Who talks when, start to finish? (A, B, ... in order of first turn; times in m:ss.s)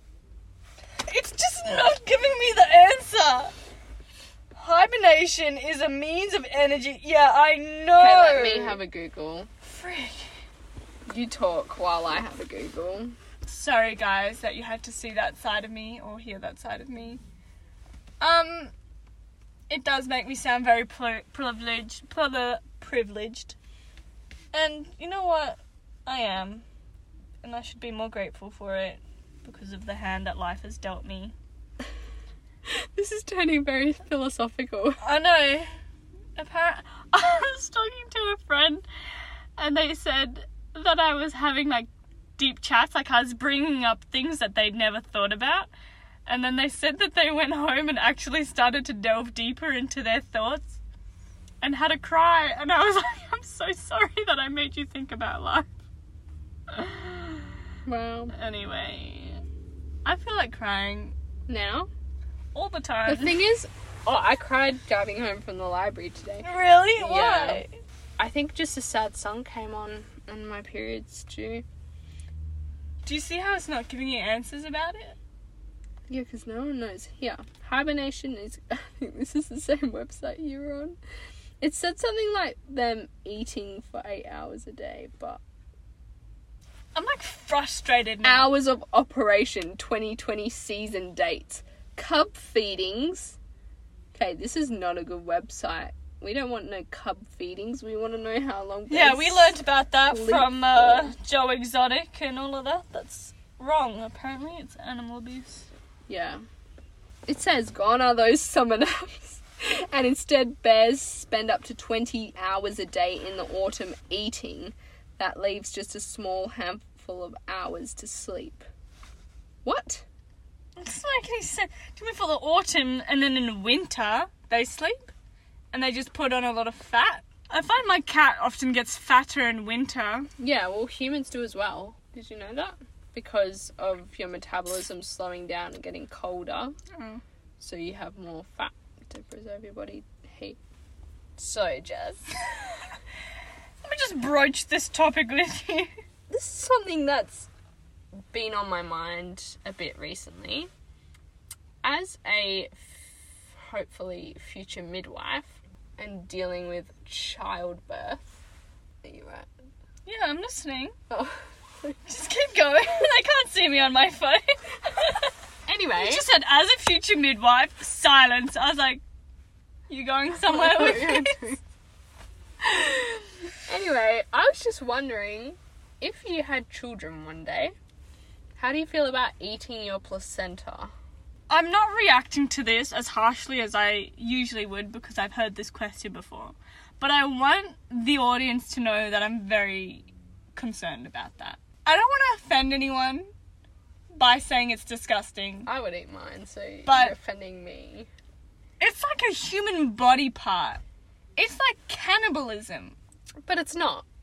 0:01.0-0:03.5 A
0:04.5-0:08.8 A
0:07.9-0:09.5 B
0:09.6-0:10.3 A
0:11.1-0:13.1 B
0:13.4-0:17.2 A
0:18.2-0:18.7 A
0:19.7-0:23.6 A
0:24.5-0:26.6 A
0:27.4-0:31.3 A
0:32.7-0:35.0 B
0:35.0-0:35.7 A
0:36.4-0:38.8 A
0:39.6-0:45.7 A
0:46.2-0:50.8 A
0:51.6-0:55.7 A
0:56.7-0:57.5 A
0:57.8-0:58.3 B
0:58.3-0:59.4 A
1:00.0-1:01.1 A
1:01.5-1:01.9 B
1:02.5-1:03.4 A
1:03.1-1:07.6 B
1:06.4-1:07.8 A
1:08.2-1:11.6 B
1:13.0-1:15.2 A
1:16.1-1:21.0 B
1:21.6-1:25.4 B
1:26.9-1:28.5 A
1:28.2-1:33.4 B
1:34.1-1:41.1 B
1:38.9-1:45.7 A
1:46.1-1:46.4 B
1:47.3-1:58.7 B
1:59.6-2:00.0 B
2:00.8-2:05.1 A
2:05.7-2:10.3 A
2:10.4-2:16.7 B
2:16.9-2:17.2 A
2:17.6-2:20.6 B
2:21.4-2:22.3 B
2:23.8-2:25.9 A
2:26.3-2:27.5 B
2:28.3-2:30.7 B
2:31.8-2:33.0 B
2:33.6-2:38.4 B
2:39.0-2:39.5 B
2:40.0-2:40.9 A
2:41.1-2:42.0 B
2:42.0-2:45.3 A
2:45.7-2:46.3 B
2:45.9-2:49.0 A
2:49.9-2:51.6 A
2:50.4-2:51.6 B
2:52.6-2:57.7 B
2:58.6-3:00.9 B
3:01.5-3:13.3 A
3:14.1-3:15.7 A
3:15.6-3:18.1 B
3:16.8-3:17.1 A
3:18.8-3:20.8 A
3:21.4-3:23.0 A
3:23.4-3:24.1 B